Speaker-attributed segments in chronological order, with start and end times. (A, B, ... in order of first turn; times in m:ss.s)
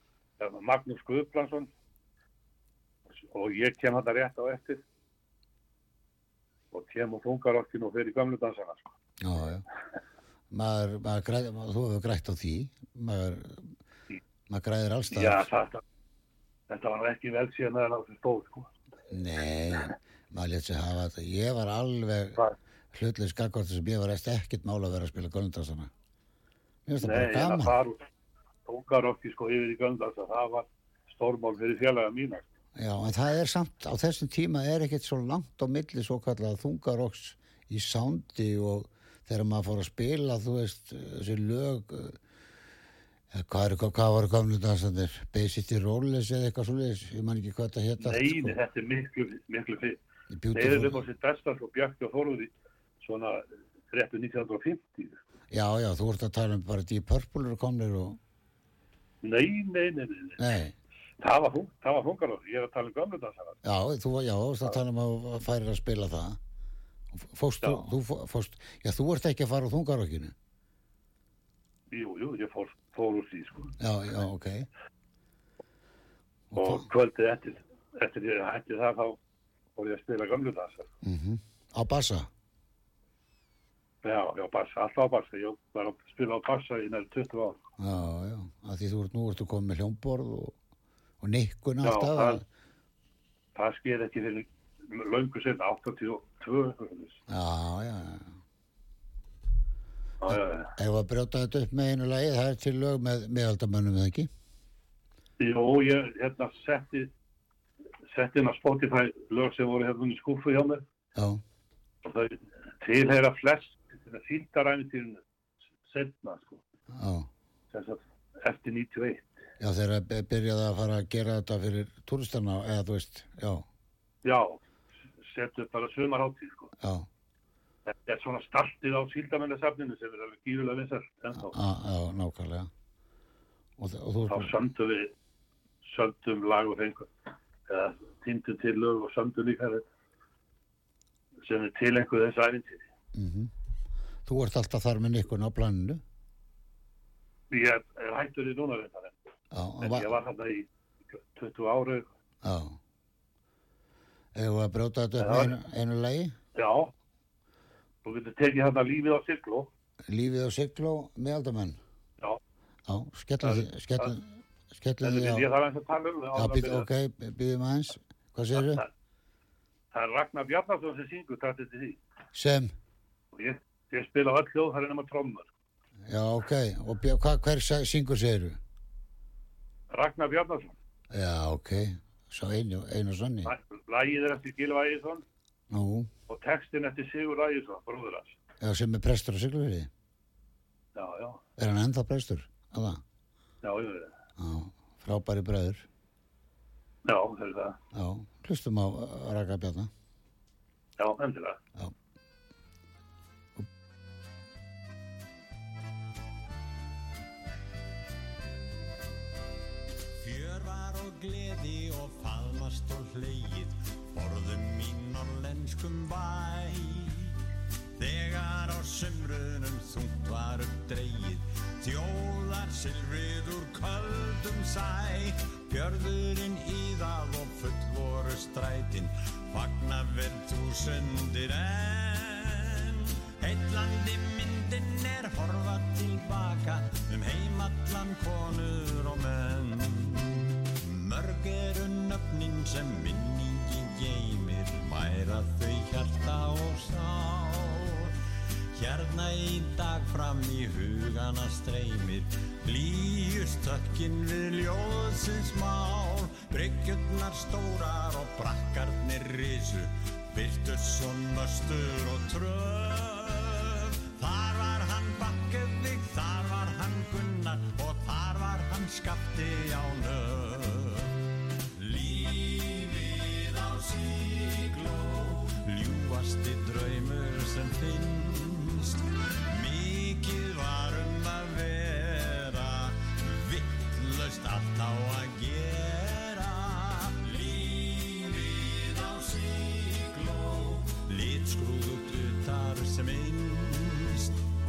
0:00.4-0:01.7 A
0:03.2-0:04.8 A
0:06.7-0:08.9 A
0:09.2-0:09.6 B
0:10.5-0:13.7 B
0:14.5-0:15.5 B
0:15.1-0:15.8 A
0:16.7-0:18.7 A
0:19.1-0:22.4 B
0:22.9-0:25.9 B
0:26.8-0:27.8 B
0:27.0-0:28.0 A
0:28.7-0:32.4 A
0:32.8-0:42.2 B
0:43.3-0:48.6 B
0:48.0-0:50.0 A
0:50.3-0:51.0 B
0:50.5-0:55.2 A
0:55.5-0:58.2 B
0:59.2-1:00.4 A
1:00.4-1:00.7 B
1:01.2-1:03.6 A
1:03.6-1:06.4 B
1:07.1-1:10.3 B
1:07.6-1:07.9 A
1:11.9-1:13.7 A
1:13.8-1:14.7 B
1:16.5-1:16.8 B
1:16.5-1:19.2 A
1:19.8-1:20.9 A
1:21.0-1:22.3 B
1:24.0-1:27.6 A
1:27.8-1:30.5 B
1:31.2-1:32.4 B
1:31.8-1:32.4 A
1:33.5-1:37.2 A
1:37.3-1:38.3 B
1:40.2-1:40.7 A
1:40.3-1:44.3 B
1:45.4-1:47.1 A
1:48.1-1:50.8 A
1:51.2-1:51.4 B
1:52.0-1:55.2 A
1:55.8-1:56.6 A
1:56.9-1:57.3 B
1:57.7-1:59.3 A
1:59.6-2:03.6 B
2:04.2-2:04.6 A
2:05.2-2:06.7 A
2:06.8-2:07.1 B
2:07.9-2:11.6 A
2:11.5-2:12.7 B
2:13.8-2:14.5 B
2:14.3-2:15.1 A
2:15.8-2:17.1 A
2:17.7-2:19.8 A
2:21.4-2:22.8 A
2:23.1-2:23.5 B
2:24.2-2:26.0 B
2:27.5-2:29.1 A
2:29.5-2:30.1 B
2:29.8-2:32.0 A
2:32.4-2:32.8 B
2:34.3-2:36.3 B
2:35.2-2:35.5 A
2:36.5-2:36.9 A
2:38.0-2:39.7 A
2:40.1-2:41.8 B
2:42.8-2:45.5 B
2:43.4-2:44.1 A
2:45.0-2:46.9 A
2:46.3-2:48.8 B
2:48.6-2:48.8 A
2:49.9-2:52.0 A
2:52.3-2:52.7 B
2:53.3-2:55.5 A
2:56.1-2:58.6 B
2:59.9-3:00.7 A
3:01.1-3:03.5 B
3:03.4-3:05.2 A
3:05.7-3:06.1 B
3:06.3-3:08.4 A
3:08.6-3:09.9 B
3:10.9-3:11.4 A
3:11.6-3:13.0 B
3:13.6-3:14.1 A
3:14.4-3:15.8 B
3:17.0-3:17.8 A
3:17.9-3:19.9 B
3:21.0-3:21.6 A
3:30.2-3:37.4 C
3:38.0-4:08.1 C
4:08.7-4:54.4 C